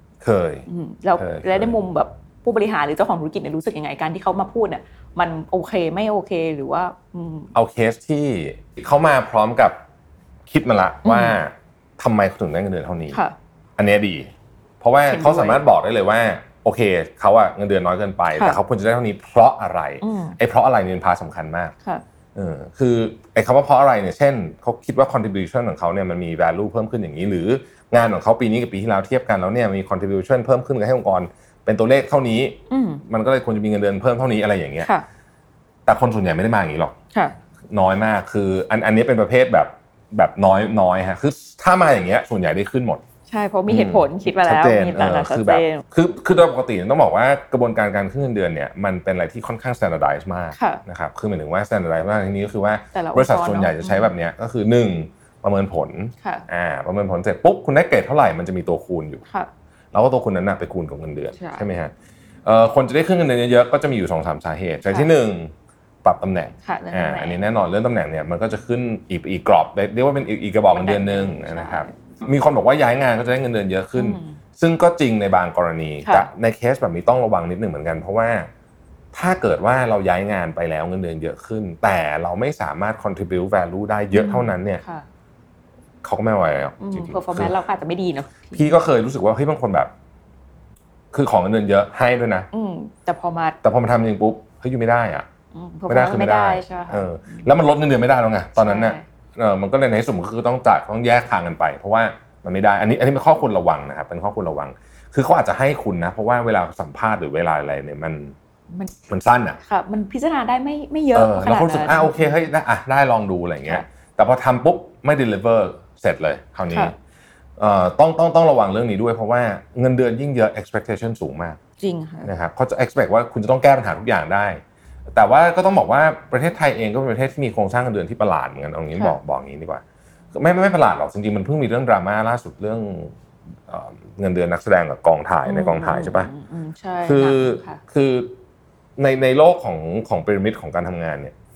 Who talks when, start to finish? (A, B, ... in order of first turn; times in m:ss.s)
0:00.2-0:00.7 A
0:00.7-0:07.5 B
0:01.2-0:01.8 A
0:07.5-0:09.8 A
0:10.5-0:13.2 A
0:11.0-0:11.4 B
0:13.8-0:14.3 A
0:14.8-0:21.7 A
0:15.1-0:15.6 B
0:20.0-0:20.4 B
0:22.4-0:34.9 A
0:32.7-0:33.0 B
0:35.9-0:37.0 A
0:37.7-0:43.0 A
0:43.3-0:45.8 B
0:43.7-0:59.2 A
0:50.6-0:50.8 B
0:52.9-0:54.1 B
0:59.9-1:01.9 A
1:01.4-1:01.7 B
1:02.4-1:05.5 A
1:04.8-1:05.1 B
1:06.0-1:18.5 A
1:06.6-1:07.4 B
1:10.7-1:11.9 B
1:14.0-1:14.4 B
1:16.0-1:16.3 B
1:19.1-1:24.8 A
1:24.1-1:25.0 B
1:26.0-1:27.6 A
1:26.8-1:28.7 B
1:28.5-1:29.9 A
1:31.1-1:32.5 A
1:32.5-1:33.6 B
1:33.6-1:35.3 A
1:35.5-1:37.5 B
1:35.9-1:48.4 A
1:38.6-1:39.0 B
1:48.7-1:49.0 B
1:49.1-1:49.6 A
1:49.6-1:52.4 B
1:51.1-1:57.0 A
1:57.6-2:01.6 A
2:01.8-2:02.3 B
2:02.2-2:04.6 A
2:05.2-2:13.1 A
2:13.7-2:16.3 A
2:15.4-2:17.8 B
2:17.0-2:18.4 A
2:19.0-2:21.3 A